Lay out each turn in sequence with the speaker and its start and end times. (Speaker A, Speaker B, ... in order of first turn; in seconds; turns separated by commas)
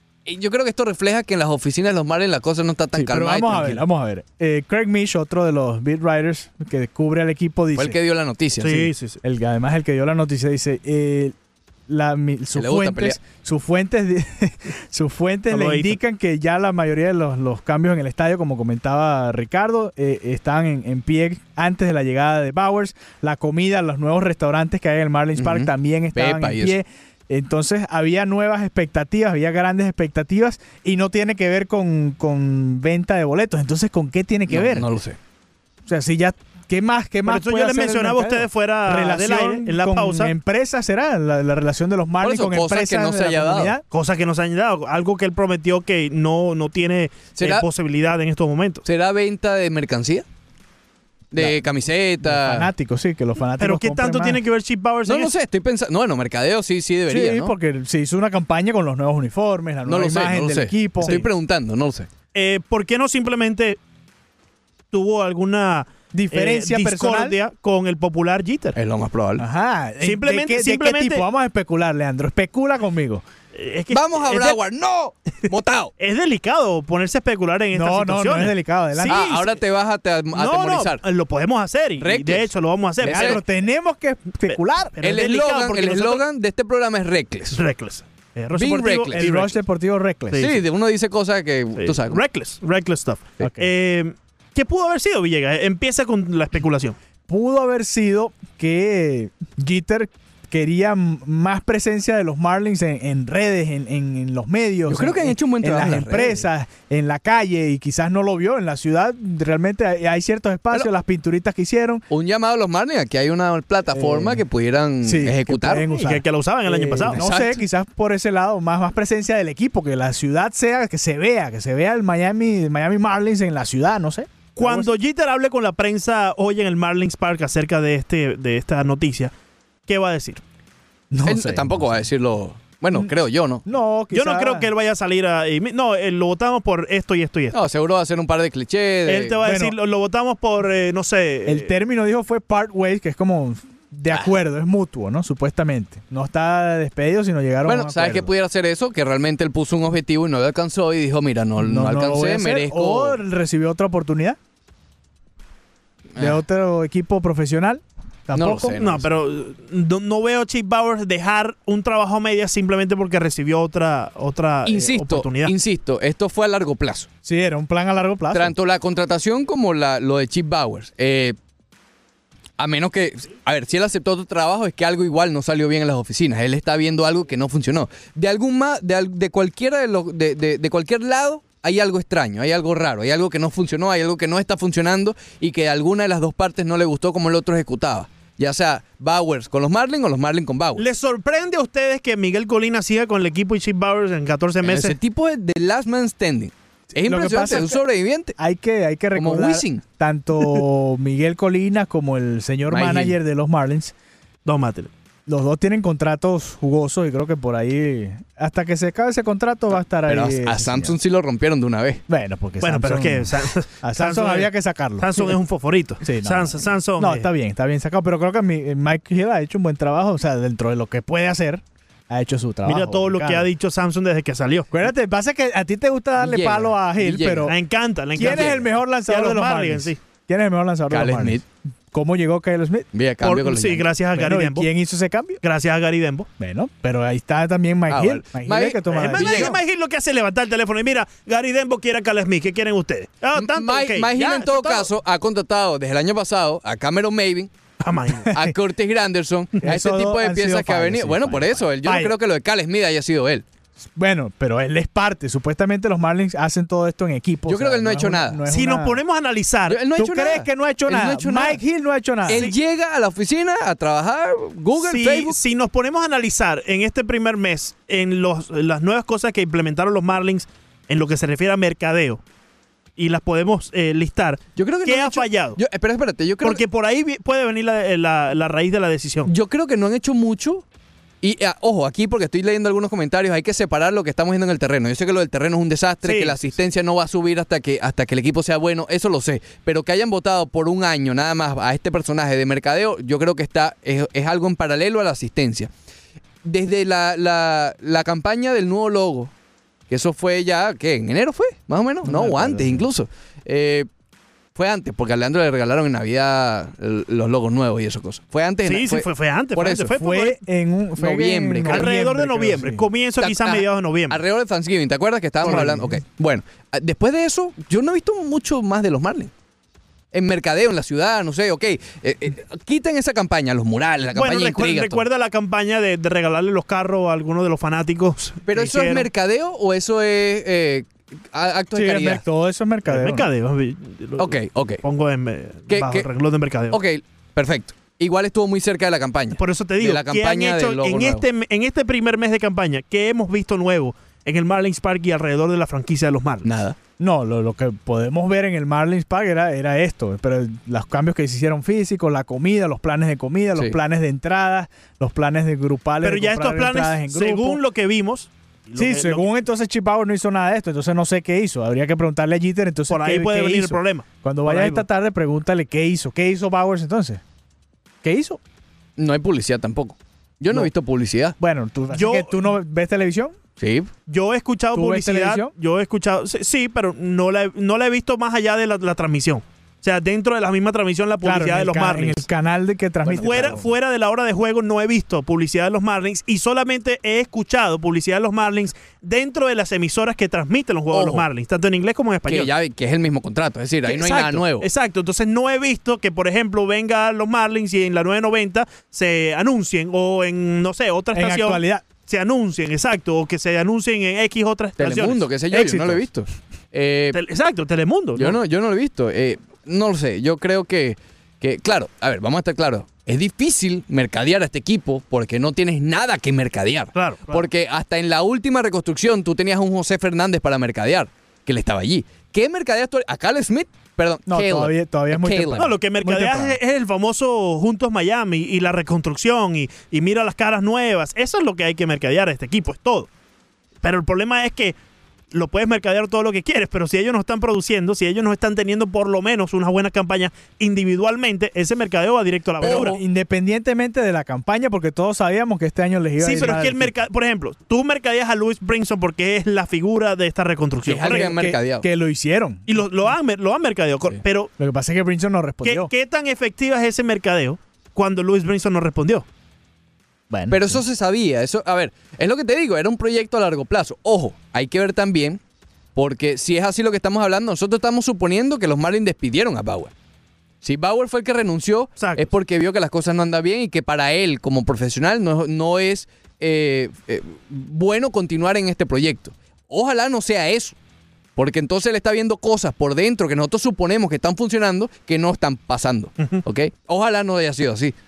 Speaker A: 0.3-3.8, Speaker B: 2.9-8.0, Speaker A: 7.8-8.9, Speaker C: 8.6-9.2, Speaker B: 9.2-11.3, Speaker B: 11.9-34.9, Speaker A: 12.5-13.2, Speaker C: 15.5-16.0, Speaker A: 25.4-26.8, Speaker A: 34.5-35.2, Speaker B: 35.9-43.8, Speaker C: 37.2-40.3, Speaker A: 42.2-43.8, Speaker C: 43.9-48.9, Speaker A: 47.4-47.6, Speaker A: 48.9-50.2, Speaker A: 51.3-52.7, Speaker B: 51.4-51.6, Speaker B: 52.2-54.4, Speaker C: 53.6-55.3, Speaker A: 55.1-57.5, Speaker B: 57.1-61.2, Speaker A: 59.9-62.1, Speaker C: 61.0-61.3, Speaker C: 62.3-63.8, Speaker C: 64.9-68.8, Speaker B: 66.1-67.4, Speaker A: 68.8-69.5, Speaker B: 69.4-73.2, Speaker C: 70.0-71.3, Speaker C: 73.5-74.6, Speaker A: 73.9-75.9, Speaker C: 76.0-79.6, Speaker B: 77.7-79.2, Speaker A: 79.1-81.0, Speaker C: 80.3-83.4, Speaker A: 82.0-83.4, Speaker B: 83.1-85.0, Speaker C: 84.5-86.2, Speaker A: 85.0-87.6, Speaker C: 87.5-89.6, Speaker A: 88.5-89.3, Speaker B: 89.1-90.4, Speaker C: 90.3-90.6, Speaker A: 90.4-92.2, Speaker C: 91.8-97.0, Speaker B: 93.4-93.7, Speaker B: 97.3-112.0, Speaker A: 104.9-106.5, Speaker A: 112.1-115.8, Speaker B: 113.9-114.4, Speaker B: 115.0-124.9, Speaker C: 115.9-117.3, Speaker A: 117.1-117.6, Speaker C: 124.6-129.3, Speaker C: 129.9-130.4, Speaker B: 131.1-131.9, Speaker A: 131.3-133.6, Speaker B: 133.7-134.7, Speaker C: 134.1-137.6, Speaker A: 137.5-139.4, Speaker C: 139.1-141.7, Speaker B: 139.4-139.8, Speaker B: 141.4-148.3, Speaker A: 147.7-153.2, Speaker B: 151.6-154.4, Speaker A: 156.1-156.4, Speaker B: 156.2-159.0, Speaker A: 158.3-159.0, Speaker C: 158.8-165.6, Speaker A: 164.7-167.1, Speaker B: 167.2-168.6, Speaker A: 168.3-171.3, Speaker A: 172.6-190.8, Speaker C: 190.8-195.0, Speaker A: 194.6-198.4, Speaker B: 196.9-197.8, Speaker B: 198.4-203.9, Speaker A: 199.1-199.8, Speaker A: 202.7-203.2, Speaker C: 204.4-204.9, Speaker B: 205.3-211.0, Speaker A: 209.9-212.0, Speaker B: 212.1-215.4, Speaker C: 212.6-217.3, Speaker B: 216.0-223.5, Speaker C: 222.6-224.7, Speaker B: 224.7-227.6, Speaker A: 226.2-227.5, Speaker C: 227.5-230.0, Speaker B: 228.2-232.9, Speaker A: 228.2-228.7, Speaker A: 230.9-231.4, Speaker A: 232.9-233.9, Speaker C: 233.2-234.7, Speaker B: 234.2-235.4, Speaker C: 235.4-236.3, Speaker B: 236.4-239.6, Speaker A: 237.9-239.6, Speaker C: 238.9-244.9, Speaker A: 243.3-247.5, Speaker C: 247.8-248.3, Speaker B: 248.2-248.6, Speaker A: 248.3-253.4, Speaker B: 249.6-252.2, Speaker B: 253.9-259.0, Speaker A: 257.5-258.4, Speaker C: 258.5-259.8, Speaker A: 259.7-261.6, Speaker B: 260.0-262.5, Speaker A: 262.3-265.4, Speaker C: 264.8-272.2, Speaker C: 273.0-275.6, Speaker A: 274.6-276.6, Speaker C: 276.4-279.3, Speaker A: 279.3-280.6, Speaker A: 281.2-295.7, Speaker C: 286.0-286.4, Speaker A: 296.4-299.3, Speaker A: 299.9-303.9, Speaker B: 302.0-302.9, Speaker A: 304.6-309.9, Speaker C: 308.6-310.4, Speaker B: 310.0-312.9, Speaker A: 311.0-311.9, Speaker C: 311.7-314.2, Speaker A: 313.2-319.3, Speaker B: 315.4-315.9, Speaker C: 315.4-315.7, Speaker A: 320.1-325.1, Speaker C: 324.1-329.1, Speaker A: 328.5-332.2, Speaker B: 331.7-333.3, Speaker C: 332.9-336.8, Speaker A: 334.2-334.8, Speaker A: 335.7-336.1, Speaker A: 336.7-341.2, Speaker C: 339.4-346.5, Speaker A: 346.4-346.8, Speaker B: 347.0-357.6, Speaker C: 356.0-359.3, Speaker B: 358.8-367.2, Speaker C: 362.9-364.9, Speaker B: 368.0-368.4, Speaker A: 369.0-371.4, Speaker B: 371.4-373.4, Speaker C: 371.9-372.5, Speaker A: 373.6-373.9, Speaker C: 374.1-382.3, Speaker B: 374.7-375.5, Speaker B: 381.2-383.7, Speaker A: 383.0-383.6, Speaker C: 383.2-392.5, Speaker A: 390.9-391.3, Speaker A: 392.3-394.7, Speaker C: 393.8-405.3, Speaker B: 401.1-401.9, Speaker A: 404.8-407.2, Speaker B: 405.5-406.1, Speaker C: 407.1-408.4, Speaker A: 408.2-425.7, Speaker C: 416.9-417.5, Speaker B: 424.3-426.6, Speaker C: 425.6-433.1, Speaker C: 433.8-434.8, Speaker C: 435.3-443.0, Speaker A: 442.6-443.0, Speaker B: 442.6-446.9, Speaker C: 446.2-451.3, Speaker A: 450.9-451.9, Speaker B: 451.0-452.9, Speaker C: 452.7-454.5, Speaker B: 454.6-455.9, Speaker C: 455.6-459.2, Speaker B: 460.3-460.8, Speaker A: 460.5-465.4, Speaker A: 466.0-469.9, Speaker A: 470.6-480.8, Speaker C: 472.0-472.3, Speaker A: 481.4-487.9